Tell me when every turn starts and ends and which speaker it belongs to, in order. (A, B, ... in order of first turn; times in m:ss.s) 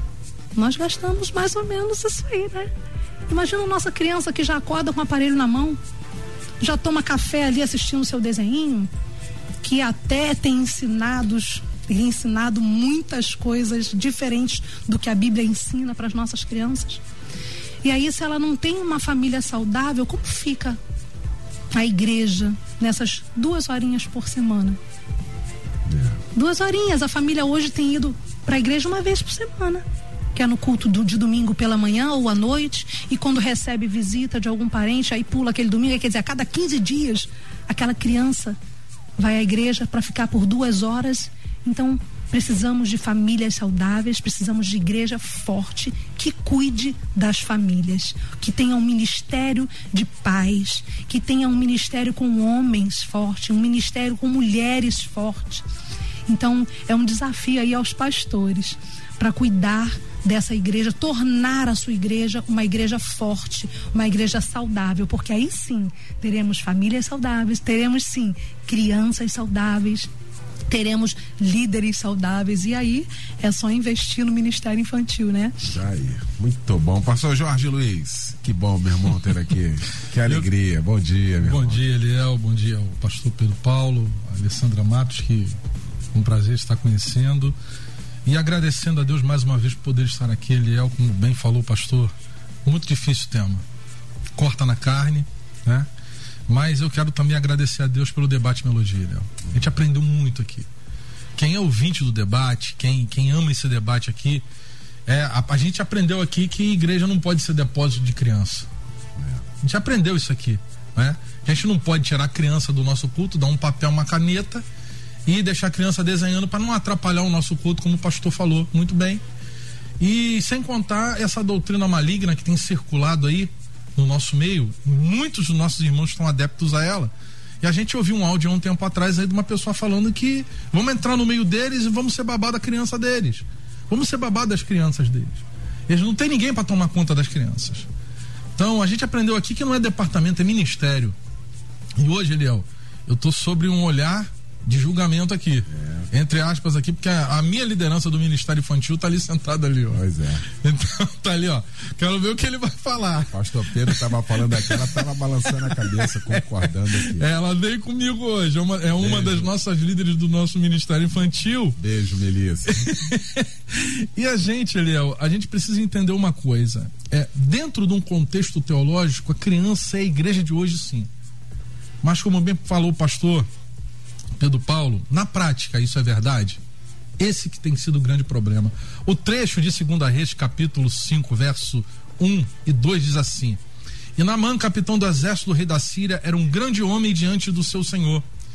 0:00.5-0:02.7 A
0:03.3-0:05.8 A
0:06.6-0:08.9 A
0:09.6-0:17.0 A
0:17.8-0:20.8 A
0:21.7-0:24.8 A
0:25.9-0:26.2 B
0:26.3-0:38.6 A
0:39.2-0:55.6 A
0:56.3-1:10.1 A
1:10.7-1:15.6 A
1:15.6-1:21.8 B
1:21.4-1:25.6 C
1:26.1-1:27.5 C
1:28.2-1:32.1 C
1:32.6-1:33.6 C
1:34.4-1:35.9 C
1:36.5-1:40.7 C
1:41.4-1:44.4 C
1:45.1-1:48.7 C
1:49.6-1:54.6 C
1:55.2-1:59.2 C
2:00.0-2:07.1 C
2:07.6-2:17.9 C
2:18.6-2:21.1 C
2:22.0-2:30.0 C
2:25.7-2:26.1 B
2:29.9-2:30.5 B
2:30.5-2:41.8 C
2:33.3-2:37.3 B
2:39.0-2:39.5 B
2:41.8-2:42.9 B
2:42.7-2:51.1 C
2:52.0-2:53.5 C
2:54.4-2:56.6 C
2:57.2-3:03.6 C
3:04.2-3:08.2 C